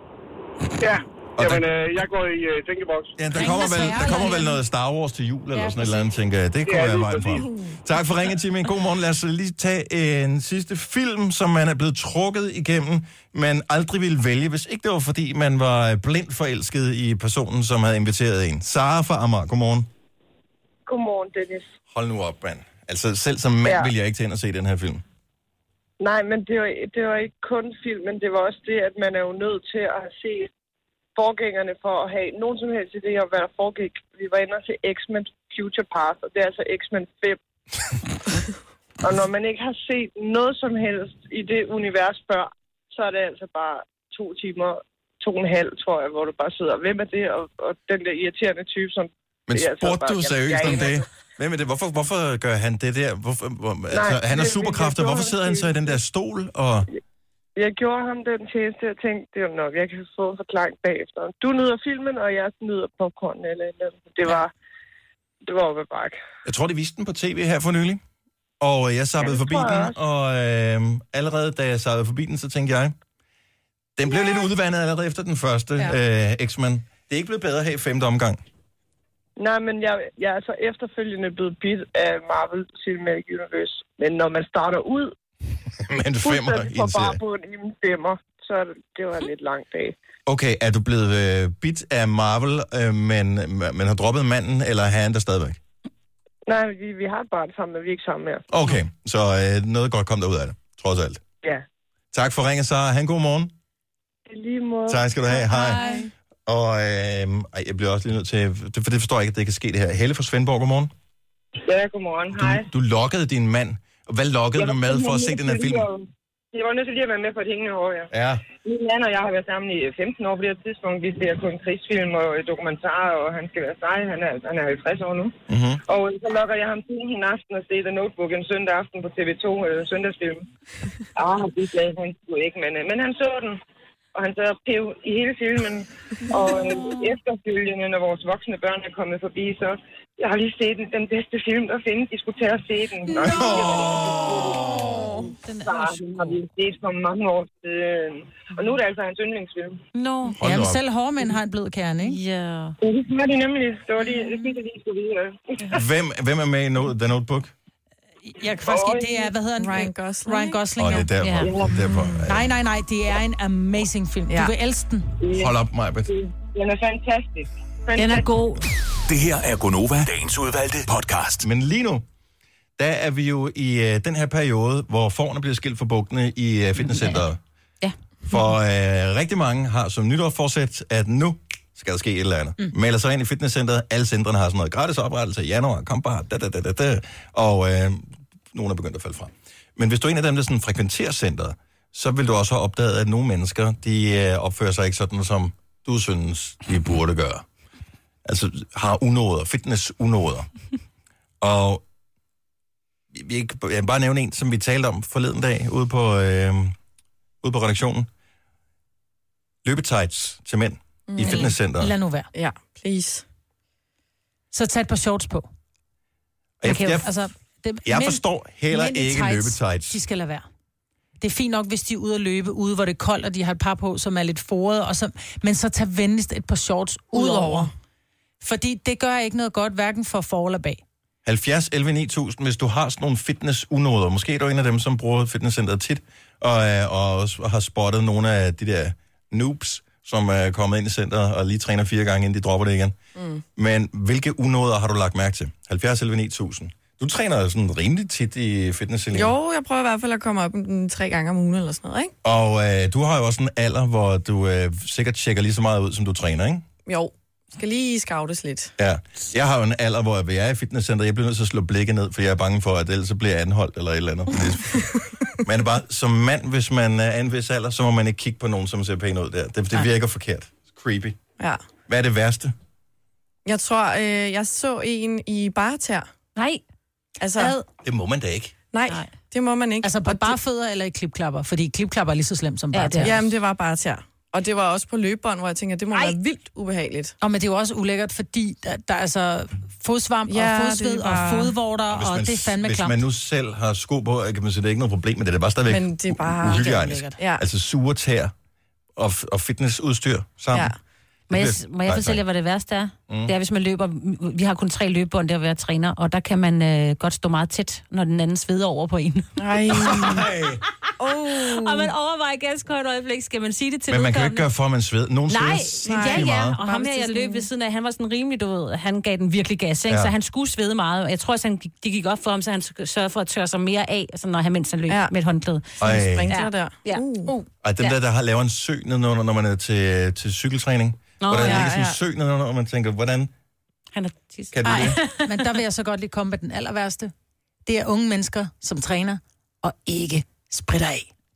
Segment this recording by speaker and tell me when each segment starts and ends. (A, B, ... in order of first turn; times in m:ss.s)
0:00.8-0:03.2 A
0:01.4-0:01.7 B
0:03.2-0:19.9 B
0:03.3-0:04.6 C
0:05.5-0:06.1 C
0:06.6-0:07.5 A
0:07.4-0:07.7 D
0:20.9-0:21.7 E
0:21.9-0:25.0 B
0:23.6-0:23.9 E
0:26.0-0:30.5 E
0:31.2-0:37.4 E
0:39.0-0:51.1 E
0:49.5-0:56.9 B
0:53.9-0:56.0 E
0:57.6-1:04.5 E
1:05.4-1:06.2 E
1:06.4-1:08.0 B
1:08.6-1:13.0 B
1:09.2-1:10.0 E
1:14.0-1:18.4 B
1:19.4-1:25.1 E
1:25.8-1:27.2 B
1:26.2-1:30.0 E
1:30.3-1:35.6 B
1:36.5-1:38.4 E
1:38.5-1:41.2 B
1:42.1-1:43.5 B
1:44.3-1:45.8 E
1:44.9-1:45.8 B
1:46.5-1:50.9 B
1:51.6-1:52.7 E
1:52.3-1:55.9 B
1:54.6-2:05.4 E
1:58.1-1:58.4 B
2:05.5-2:05.8 B
2:05.9-2:10.5 E
2:11.2-2:13.6 E
2:14.1-2:29.8 E
2:23.3-2:23.8 B
2:25.5-2:26.3 F
2:30.0-2:30.4 F
2:30.3-2:30.8 B
2:30.4-2:32.2 C
2:32.0-2:32.8 F
2:32.8-2:35.8 E
2:35.7-2:37.5 B
2:38.2-2:41.1 C
2:38.6-2:39.3 E
2:39.6-2:40.6 D
2:40.8-2:42.5 B
2:41.2-2:41.5 F
2:41.4-2:41.8 E
2:41.8-2:42.2 D
2:42.2-2:45.1 C
2:44.3-2:44.5 D
2:45.2-2:48.3 E
2:45.3-2:46.1 B
2:48.0-2:48.6 F
2:49.1-2:51.4 G
2:51.4-2:52.0 B
2:52.8-2:57.4 B
2:56.8-2:57.2 F
2:58.3-3:17.4 B
3:18.2-3:20.5 B
3:21.4-3:21.8 B
3:23.1-3:26.8 B
3:27.4-3:28.1 B
3:29.6-3:31.9 B
3:31.1-3:31.5 D
3:31.2-3:32.3 C
3:32.3-3:33.2 D
3:34.5-3:35.5 C
3:36.6-3:37.2 B
3:36.6-3:40.5 C
3:37.9-3:40.0 B
3:41.2-3:47.7 C
3:47.1-3:47.7 D
3:48.4-3:50.8 C
3:51.2-4:03.0 B
4:03.2-4:03.4 D
4:03.6-4:09.4 B
4:09.1-4:12.1 D
4:12.2-4:16.7 B
4:16.8-4:18.7 D
4:18.8-4:24.8 B
4:25.4-4:31.2 B
4:31.9-4:32.5 B
4:33.4-4:36.1 D
4:36.4-4:36.6 F
4:37.2-4:37.6 D
4:37.8-4:38.6 B
4:38.7-4:40.4 D
4:39.8-4:43.2 C
4:42.7-4:43.3 F
4:43.0-4:47.2 D
4:47.2-4:53.0 C
4:50.3-4:51.6 D
4:51.9-4:58.3 B
4:55.7-4:57.4 D
4:56.5-4:57.1 C
4:59.0-5:00.7 B
5:00.5-5:00.8 D
5:01.3-5:02.2 B
5:01.3-5:10.1 F
5:09.4-5:10.2 D
5:09.7-5:10.6 B
5:11.0-5:11.9 D
5:11.3-5:14.5 F
5:13.9-5:16.6 B
5:15.3-5:28.0 F
5:15.8-5:17.5 D
5:24.9-5:25.1 D
5:25.8-5:26.3 B
5:25.8-5:27.3 D
5:27.6-5:33.3 B
5:31.2-5:31.7 F
5:31.4-5:32.0 D
5:33.9-5:35.2 F
5:34.5-5:35.0 B
5:34.7-5:37.1 C
5:37.7-5:41.1 C